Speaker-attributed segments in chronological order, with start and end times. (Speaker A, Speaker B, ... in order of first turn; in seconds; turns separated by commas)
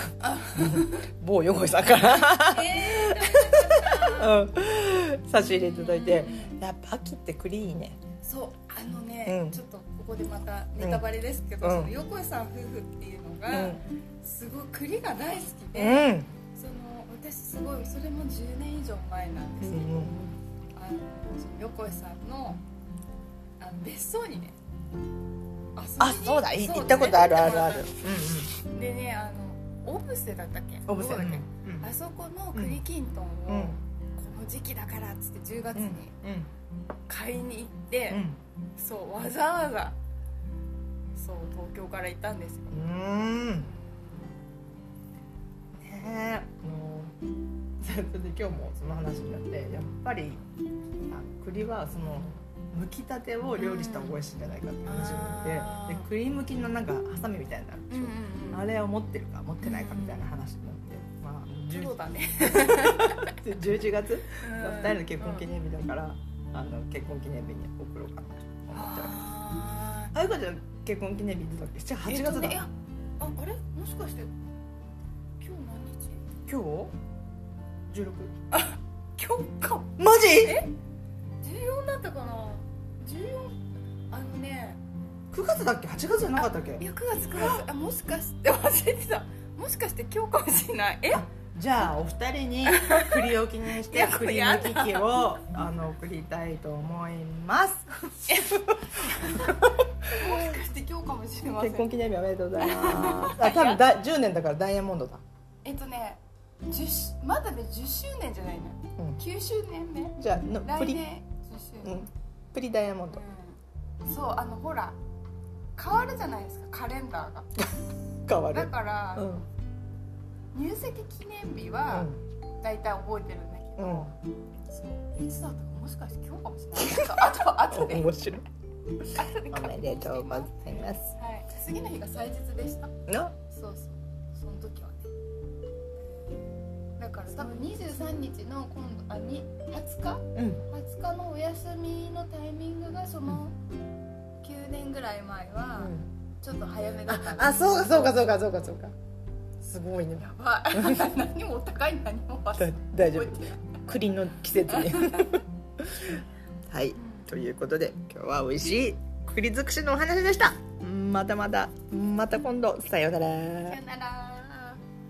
Speaker A: 0.2-1.1, Speaker B: 0.5-8.0, Speaker A: 2.3-4.4, Speaker A: 5.4-6.6, Speaker A: 8.2-20.1, Speaker B: 9.2-9.6, Speaker B: 10.8-11.0, Speaker B: 11.6-11.9, Speaker B: 13.5-13.8, Speaker B: 15.7-16.3, Speaker B: 19.6-20.3, Speaker A: 20.7-22.6, Speaker A: 23.6-24.6, Speaker A: 25.7-28.0, Speaker B: 26.0-28.5, Speaker A: 28.6-36.1, Speaker B: 30.9-31.9, Speaker B: 32.5-32.8, Speaker B: 33.5-33.8, Speaker B: 35.7-36.5, Speaker A: 37.1-38.2, Speaker B: 38.1-38.4, Speaker A: 38.8-40.0, Speaker A: 41.1-42.7, Speaker B: 42.7-43.7, Speaker A: 43.5-44.3, Speaker B: 45.7-47.1, Speaker B: 47.8-50.4, Speaker B: 51.0-69.2, Speaker A: 53.6-54.1, Speaker A: 54.9-56.1, Speaker A: 57.9-58.7, Speaker A: 59.6-60.2, Speaker A: 61.7-63.4, Speaker A: 64.4-65.5, Speaker A: 68.7-70.1, Speaker B: 70.1-72.6, Speaker A: 72.0-74.3, Speaker A: 75.4-76.2, Speaker B: 76.5-76.9, Speaker B: 77.9-78.3, Speaker A: 78.5-80.7, Speaker B: 80.0-80.6, Speaker A: 81.4-83.6, Speaker A: 84.1-84.8, Speaker B: 85.3-87.6, Speaker A: 86.3-91.3, Speaker B: 91.3-98.4, Speaker A: 92.7-95.2, Speaker A: 98.3-101.9, Speaker B: 99.2-100.6, Speaker B: 101.6-105.2, Speaker A: 102.6-103.8, Speaker A: 105.6-112.1, Speaker B: 110.2-111.0, Speaker B: 111.8-113.2, Speaker A: 113.1-115.0, Speaker A: 115.8-117.5, Speaker B: 118.3-119.4, Speaker A: 118.5-119.5, Speaker A: 120.5-122.1, Speaker B: 121.9-122.2, Speaker A: 122.6-124.2, Speaker B: 123.8-124.1, Speaker A: 124.7-128.1, Speaker B: 126.8-128.4, Speaker A: 129.1-135.1, Speaker B: 129.5-131.1, Speaker B: 133.1-133.3, Speaker A: 136.0-136.4, Speaker A: 137.0-143.6, Speaker B: 140.3-140.6, Speaker A: 144.4-148.1, Speaker B: 145.8-146.0, Speaker B: 147.1-148.9, Speaker B: 149.6-151.0, Speaker A: 150.2-153.8, Speaker B: 152.6-163.8, Speaker A: 154.7-155.3, Speaker A: 156.9-157.3, Speaker A: 163.6-164.8